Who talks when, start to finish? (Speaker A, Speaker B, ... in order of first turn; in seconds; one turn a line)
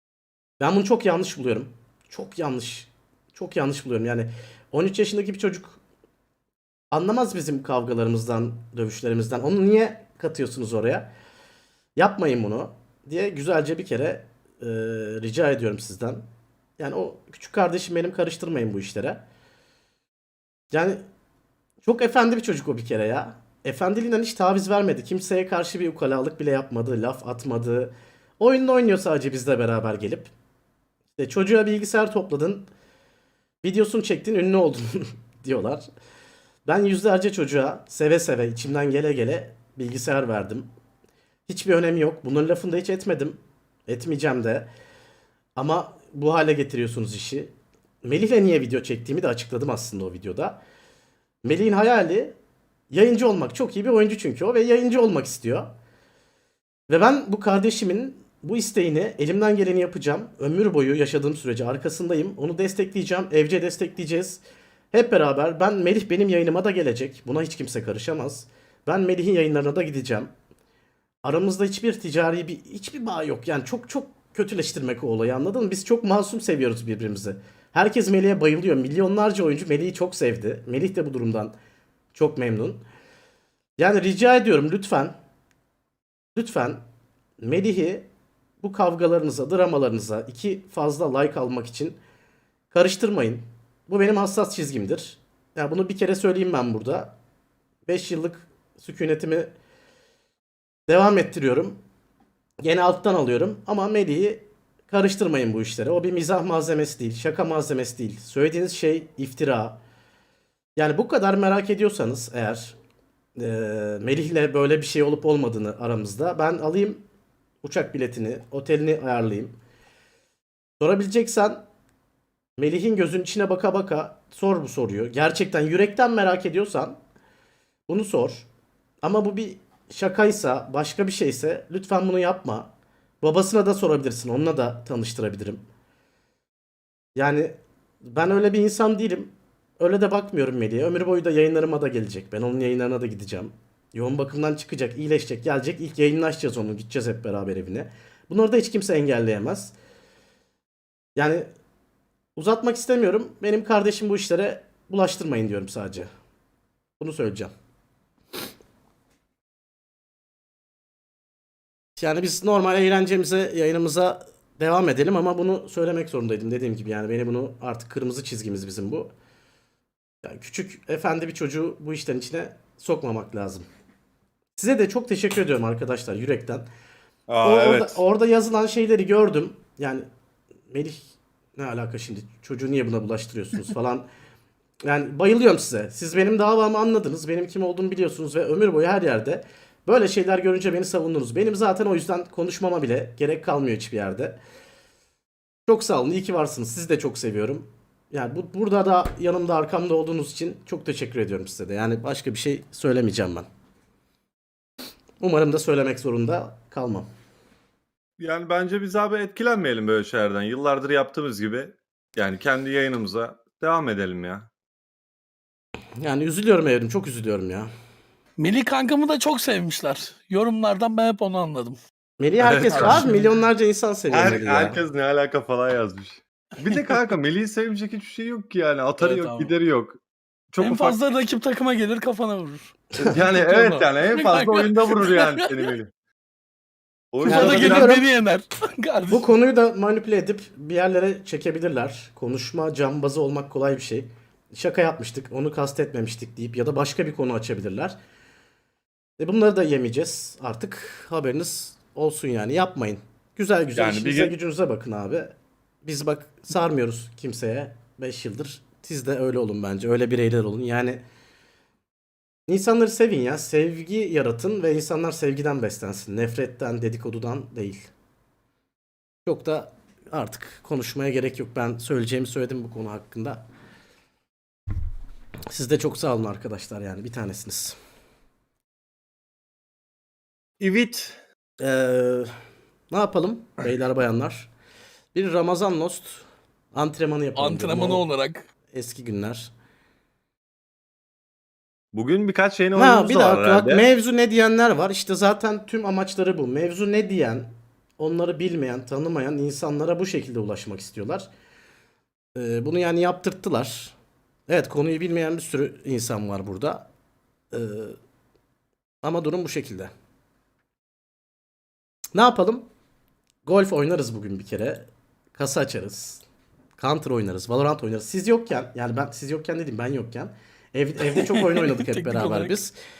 Speaker A: 0.6-5.8
Speaker A: 6.9-11.1
Speaker A: 12.0-16.2
Speaker A: 16.8-19.2
Speaker A: 20.7-21.0
Speaker A: 21.8-30.3
Speaker A: 31.2-32.7
Speaker A: 33.6-35.8
Speaker A: 36.7-40.7
Speaker A: 41.5-44.7
Speaker A: 45.6-50.6
Speaker A: 51.4-52.4
Speaker A: 52.9-55.7
Speaker A: 56.9-64.4
Speaker A: 64.9-70.3
Speaker A: 71.2-81.5
Speaker A: 82.1-82.8
Speaker A: 83.8-85.1
Speaker A: 86.3-86.8
Speaker A: 87.4-88.1
Speaker A: 88.6-92.0
Speaker A: 92.7-97.2
Speaker A: 97.9-99.5
Speaker A: 100.9-101.8
Speaker A: 102.6-109.8
Speaker A: 110.8-112.8
Speaker A: 113.4-117.0
Speaker A: 117.6-119.6
Speaker A: 120.8-121.6
Speaker A: 122.6-127.0
Speaker A: 127.9-128.5
Speaker A: 129.0-135.6
Speaker A: 137.2-149.7
Speaker A: 151.2-151.5
Speaker A: 152.4-156.1
Speaker A: 157.0-157.5
Speaker A: 162.0-169.1
Speaker A: 170.2-173.7
Speaker A: 174.6-176.7
Speaker B: 177.3-178.0
Speaker A: 177.4-180.1
Speaker A: 180.7-181.0
Speaker A: 181.6-184.1
Speaker A: 184.8-194.4
Speaker A: 195.7-203.5
Speaker A: 205.2-207.1
Speaker B: 208.2-214.5
Speaker A: 216.0-217.7
Speaker C: 218.4-221.8
Speaker A: 222.2-224.8
Speaker B: 222.4-223.0
Speaker C: 222.7-223.3
Speaker B: 224.1-231.0
Speaker C: 229.0-229.5
Speaker C: 230.6-235.7
Speaker B: 233.0-235.9
Speaker B: 237.1-238.0
Speaker C: 237.2-239.3
Speaker A: 237.3-238.1
Speaker A: 239.1-248.0
Speaker A: 249.2-261.0
Speaker B: 253.8-254.3
Speaker A: 262.5-267.8
Speaker A: 269.3-273.4
Speaker A: 275.5-277.8
Speaker B: 280.6-281.2
Speaker A: 281.6-282.3
Speaker A: 282.9-284.5
Speaker A: 285.1-288.0
Speaker C: 287.4-288.4
Speaker A: 288.7-289.5
Speaker B: 291.9-293.9
Speaker A: 292.8-301.3
Speaker A: 302.4-304.0
Speaker A: 304.5-306.9
Speaker A: 307.5-308.0
Speaker A: 309.0-309.9
Speaker A: 312.1-312.7
Speaker A: 313.5-316.2
Speaker A: 316.8-322.8
Speaker C: 321.1-322.6